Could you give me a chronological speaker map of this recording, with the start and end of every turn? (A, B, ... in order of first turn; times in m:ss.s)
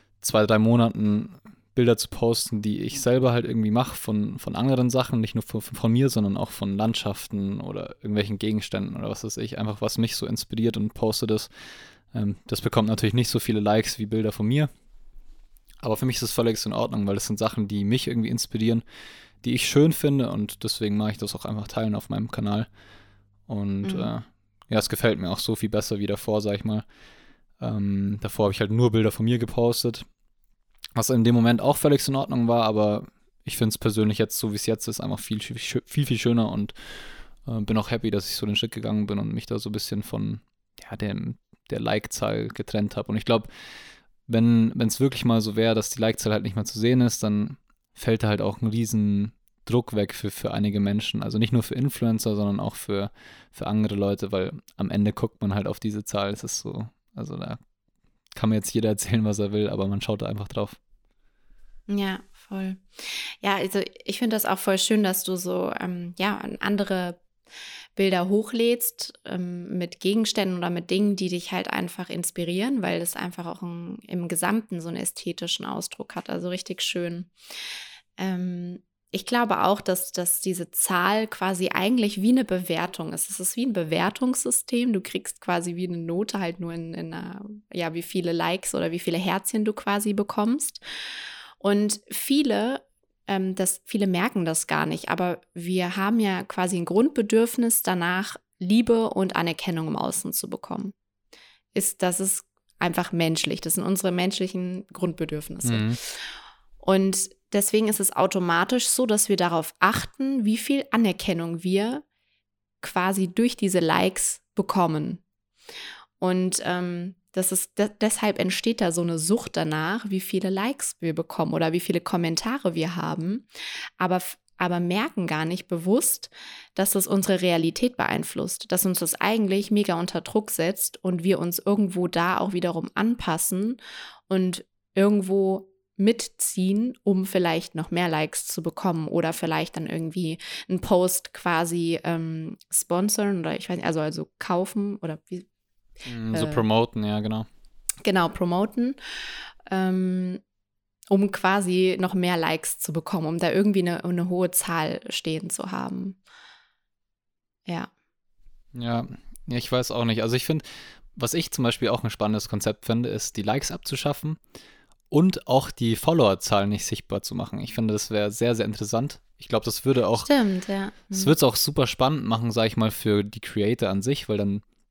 0:00.2-0:11.5 A
0:12.1-0:14.7 A
0:15.8-0:18.8 A
0:19.4-0:22.7 A
0:23.5-0:26.8 A
0:23.8-0:24.1 B
0:27.6-0:30.1 A
0:31.0-0:36.7 A
0:37.4-0:43.5 A
0:44.3-0:57.6 A
0:58.4-1:00.8 A
1:01.9-1:07.2 B
1:08.0-1:17.3 B
1:18.2-1:30.8 B
1:31.6-1:40.9 B
1:41.8-1:46.2 B
1:45.7-1:46.0 A
1:46.8-1:52.0 B
1:52.8-1:55.2 B
1:56.2-2:03.5 B
2:04.0-2:13.8 B
2:14.3-2:25.5 B
2:26.1-2:27.5 A
2:26.3-2:26.6 B
2:28.0-2:29.0 B
2:29.7-2:30.4 B
2:31.1-2:36.2 B
2:38.7-2:44.4 A
2:45.1-2:50.3 A
2:50.2-2:51.3 B
2:51.1-2:54.6 A